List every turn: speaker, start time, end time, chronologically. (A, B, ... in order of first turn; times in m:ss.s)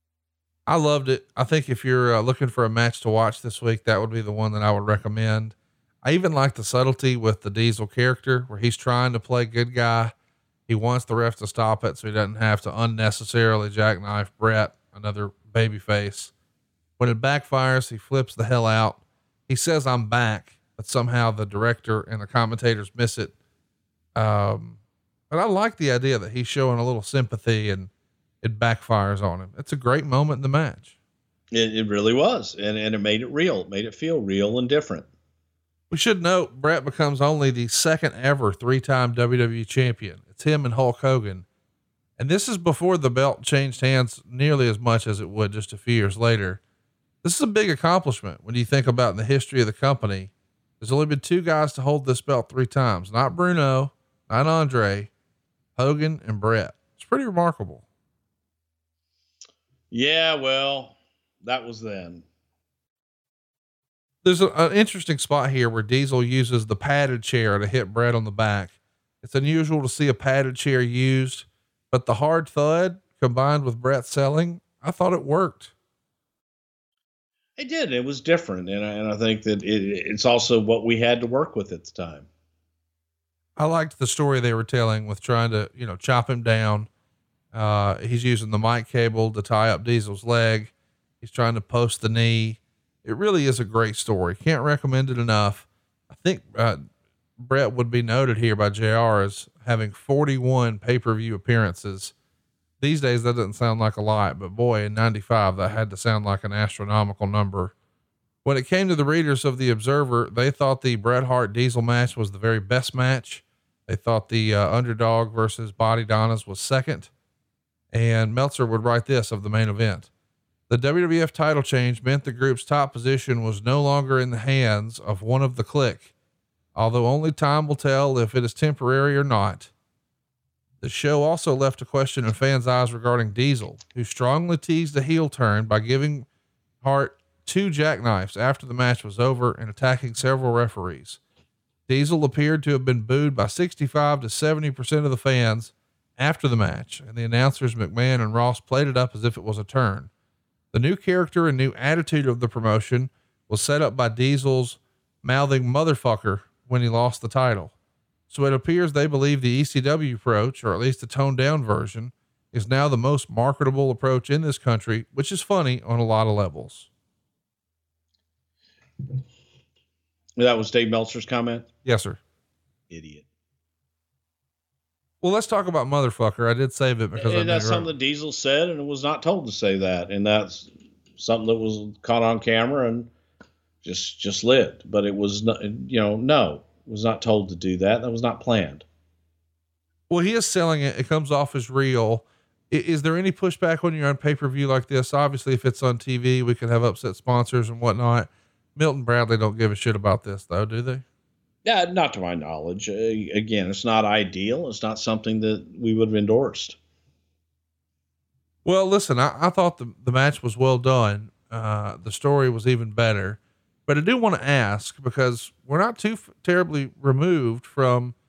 0:00.7-0:10.1 A
0:10.7-0:16.3 A
0:17.0-0:23.3 A
0:24.2-0:24.8 A
0:25.3-0:27.9 A
0:28.4-0:30.9 A
0:31.5-0:35.1 B
0:35.9-0:41.4 A
0:42.2-0:46.6 A
0:47.2-0:55.1 A
0:55.8-0:57.8 A
0:59.9-1:02.2 B
1:04.2-1:15.7 A
1:17.6-1:22.3 B
1:23.6-1:26.9 A
1:27.5-1:36.8 A
1:37.4-1:42.1 A
1:42.8-1:47.7 A
1:48.4-1:57.1 A
1:57.9-2:00.1 A
2:00.7-2:06.1 A
2:06.8-2:09.7 A
2:10.8-2:16.3 A
2:16.8-2:21.2 A
2:21.9-2:30.1 A
2:30.7-2:37.7 A
2:38.3-2:46.9 A
2:50.4-2:51.7 B
2:51.8-2:52.2 A
2:52.9-2:53.3 B
2:55.2-2:57.9 A
2:57.2-3:03.1 B
3:03.8-3:08.8 B
3:10.1-3:21.0 A
3:21.6-3:26.8 B
3:28.6-3:38.2 A